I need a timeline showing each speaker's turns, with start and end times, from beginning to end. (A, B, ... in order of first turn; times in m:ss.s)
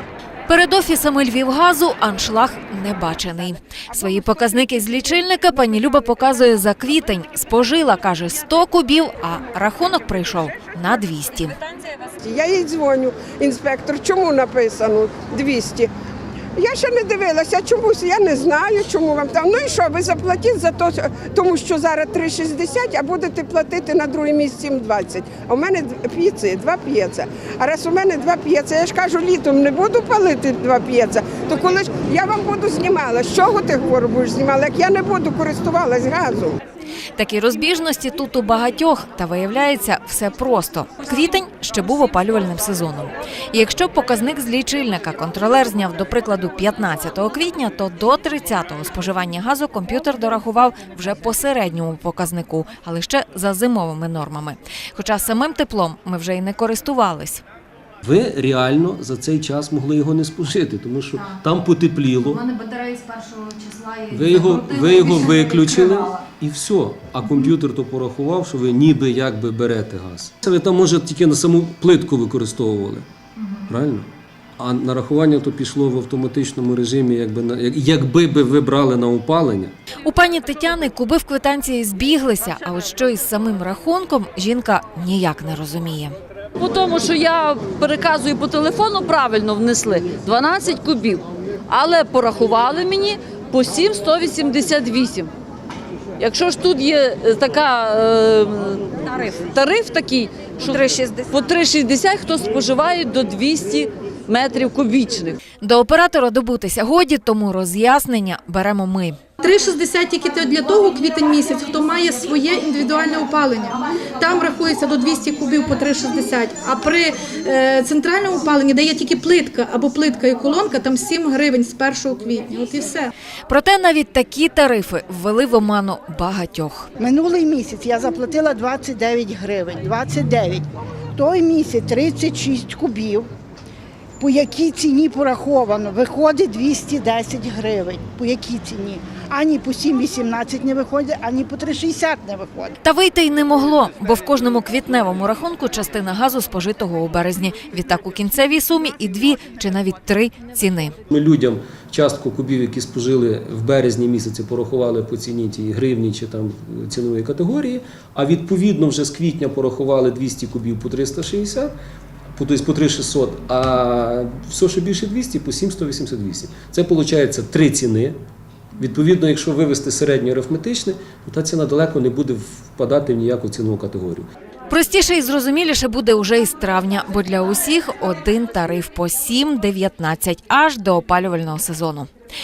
0:00.5-0:11.6 A
0:12.2-0:15.9 B
0:16.6-0:36.6 B
0:37.2-0:57.4 A
0:58.0-1:02.4 C
1:02.5-1:04.7 A
1:04.1-1:13.0 C
1:13.7-1:19.7 C
1:20.0-1:26.2 A
1:26.6-1:35.3 D
1:36.2-1:45.4 D
1:40.7-1:41.3 A
1:45.6-1:49.2 A
1:49.4-2:03.1 E
2:03.5-2:06.9 A
2:07.0-2:13.3 F
2:14.2-2:22.8 F
2:22.8-2:31.0 A
2:31.1-2:41.8 C
2:42.3-2:48.2 C
2:48.8-2:54.3 C
2:54.7-3:02.1 A